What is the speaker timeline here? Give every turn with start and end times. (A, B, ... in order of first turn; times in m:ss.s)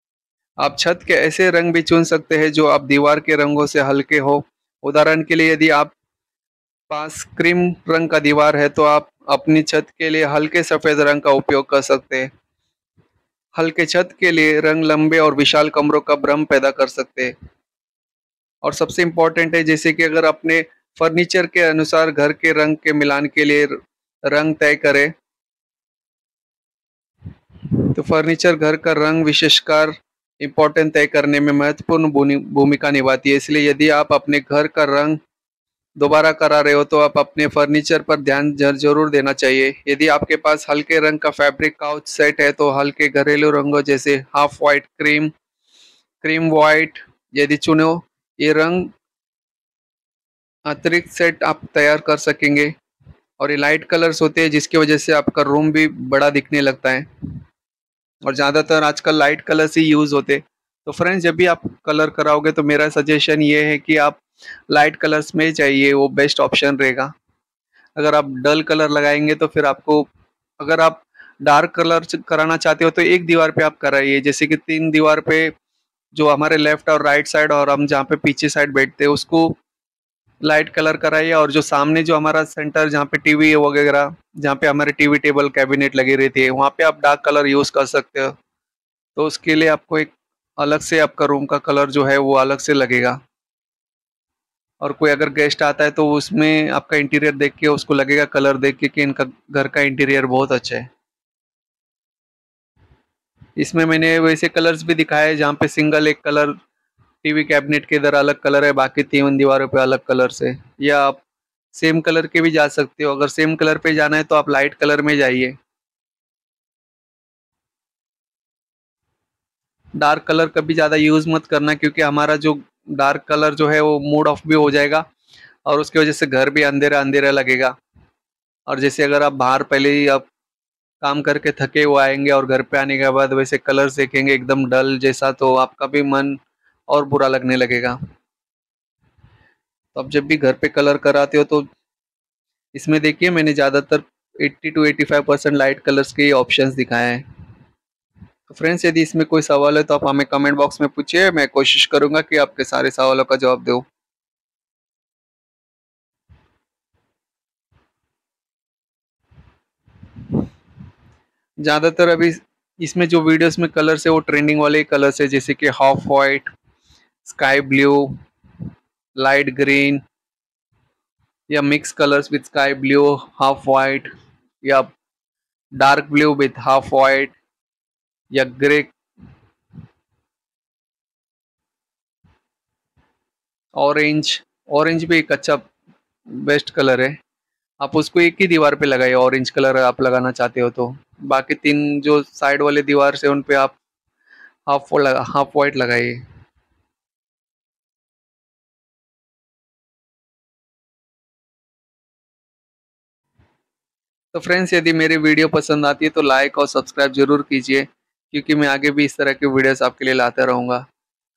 0:00.6-0:05.9 A
0:06.9-0:12.3 A
0:13.6-0:17.3 A
0:18.6-0:23.8 A
0:24.3-0:25.1 A
0:27.9-0:35.2 A
0:36.0-0:45.3 A
0:46.2-0:48.9 A
0:50.7-0:52.7 A
0:53.4-0:57.1 A
0:58.2-1:07.1 A
1:08.0-1:10.1 A
1:10.6-1:15.5 A
1:16.1-1:19.6 A
1:20.4-1:28.3 A
1:29.2-1:33.2 A
1:34.8-1:40.9 A
1:43.6-1:46.6 A
1:47.2-1:51.2 A
1:51.7-1:55.6 A
2:00.0-2:05.0 A
2:05.7-2:07.7 A
2:08.7-2:10.3 A
2:11.0-2:18.0 A
2:20.0-2:21.6 A
2:22.7-2:27.2 A
2:28.5-2:33.9 A
2:41.6-2:46.5 A
2:47.2-2:48.1 A
2:49.2-2:50.0 A
2:51.5-2:54.1 A
2:54.6-2:54.9 A
2:55.8-2:57.4 A
2:58.3-2:59.0 A
3:03.8-3:05.7 A
3:06.4-3:07.2 A
3:07.8-3:13.8 A
3:14.7-3:16.2 A
3:24.3-3:30.8 A